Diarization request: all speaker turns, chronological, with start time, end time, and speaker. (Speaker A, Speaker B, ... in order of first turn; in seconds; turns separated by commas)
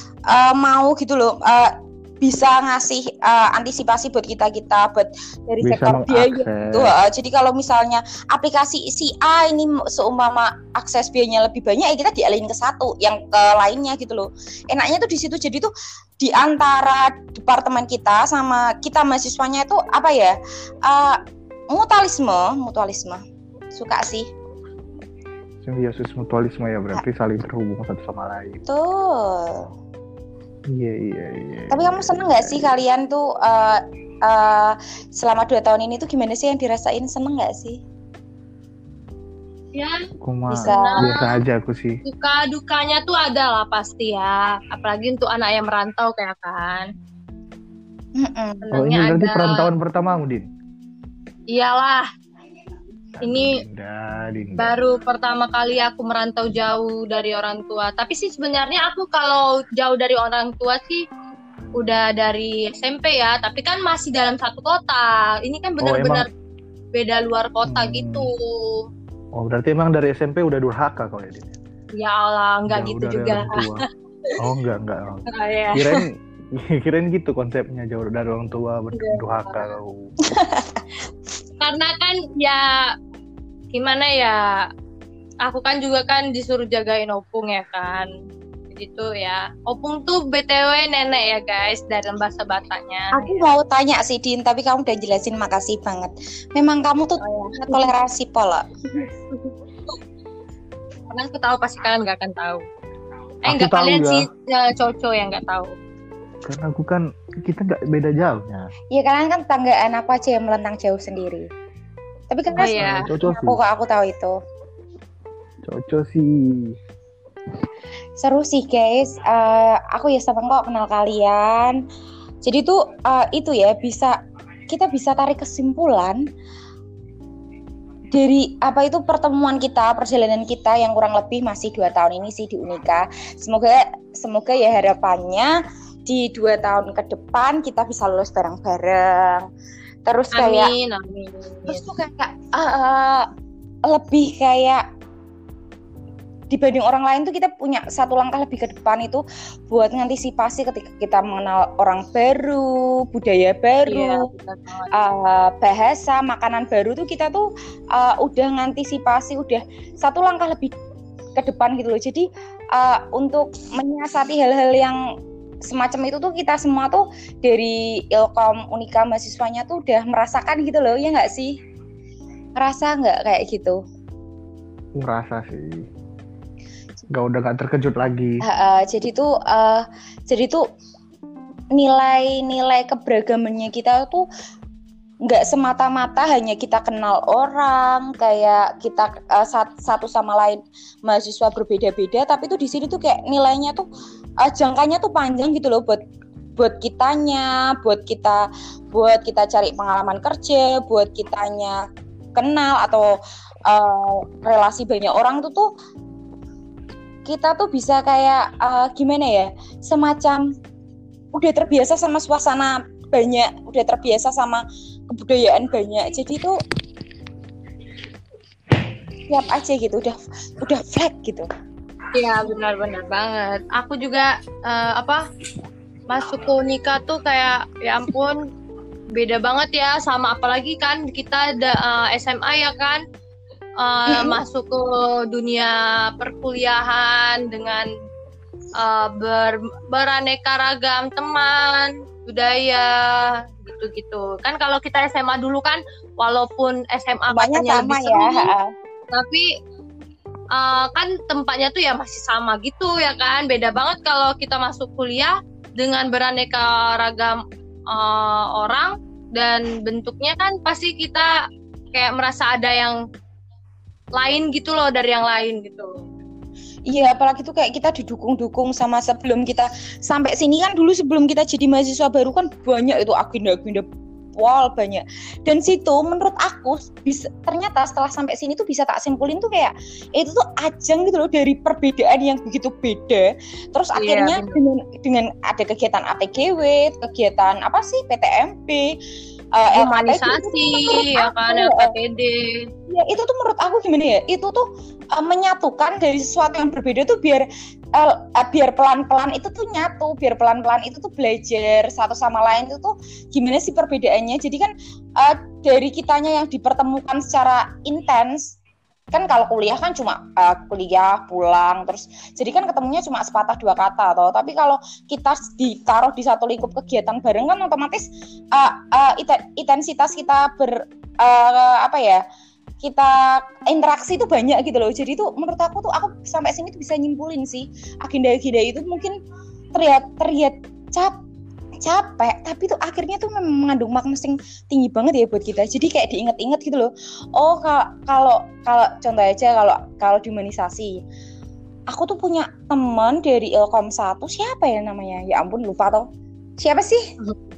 Speaker A: 0.3-21.2, Speaker B: 5.6-6.9, Speaker A: 21.7-24.3, Speaker B: 25.6-28.6, Speaker A: 28.6-29.7, Speaker B: 30.7-32.7, Speaker A: 31.7-37.8, Speaker C: 39.7-40.0, Speaker B: 40.2-42.0, Speaker C: 40.5-41.3, Speaker A: 40.6-41.1, Speaker C: 42.0-46.9, Speaker A: 48.2-48.6, Speaker C: 48.6-49.7, Speaker B: 48.7-50.5, Speaker C: 51.5-52.1, Speaker B: 53.1-54.8, Speaker C: 53.2-53.6, Speaker C: 54.6-61.0, Speaker C: 61.8-66.3, Speaker B: 65.8-66.2, Speaker C: 66.9-68.8, Speaker B: 67.7-68.3, Speaker B: 69.4-71.5, Speaker C: 72.0-73.7, Speaker B: 72.7-73.8, Speaker B: 74.4-80.1, Speaker C: 75.3-76.0, Speaker C: 78.9-79.7, Speaker A: 80.2-80.8, Speaker C: 81.6-82.9, Speaker C: 83.7-84.6, Speaker C: 85.4-88.1, Speaker C: 88.7-93.4, Speaker A: 93.1-98.7, Speaker C: 97.2-97.9, Speaker C: 101.1-102.6, Speaker B: 103.5-104.2, Speaker C: 103.5-105.7, Speaker B: 106.4-108.7, Speaker A: 108.9-111.5, Speaker A: 112.3-114.3, Speaker C: 112.5-113.1, Speaker B: 112.5-113.6, Speaker B: 115.7-116.7, Speaker A: 118.2-121.8, Speaker A: 122.4-124.2, Speaker A: 124.7-126.2, Speaker A: 128.1-139.5, Speaker A: 140.1-140.7, Speaker C: 140.3-141.8, Speaker A: 141.7-143.3, Speaker A: 143.8-144.8, Speaker A: 146.5-154.2, Speaker C: 153.8-154.9, Speaker A: 154.9-160.7, Speaker A: 161.3-165.0, Speaker A: 165.6-171.6, Speaker A: 172.6-173.8, Speaker B: 175.0-175.8, Speaker B: 177.1-178.4, Speaker A: 178.4-180.6, Speaker A: 181.7-184.2, Speaker A: 185.2-193.8, Speaker A: 194.4-196.0, Speaker A: 196.6-201.8, Speaker A: 202.3-203.1, Speaker A: 203.7-205.7, Speaker A: 207.2-210.4, Speaker A: 211.3-216.6, Speaker A: 219.3-221.5, Speaker C: 222.1-225.2, Speaker C: 226.1-228.4, Speaker C: 229.1-233.0, Speaker C: 233.8-237.9, Speaker A: 234.1-234.4, Speaker C: 238.8-248.5, Speaker A: 247.3-248.7, Speaker C: 249.1-249.5, Speaker C: 250.5-261.3, Speaker C: 261.9-263.0, Speaker C: 264.1-265.9, Speaker A: 266.9-289.0, Speaker C: 283.9-284.6, Speaker A: 289.6-291.9, Speaker C: 289.7-292.6, Speaker A: 292.9-308.6, Speaker A: 309.1-322.2, Speaker A: 322.8-329.2, Speaker A: 329.7-331.2, Speaker A: 331.8-341.0, Speaker A: 341.9-346.1, Speaker A: 346.6-347.1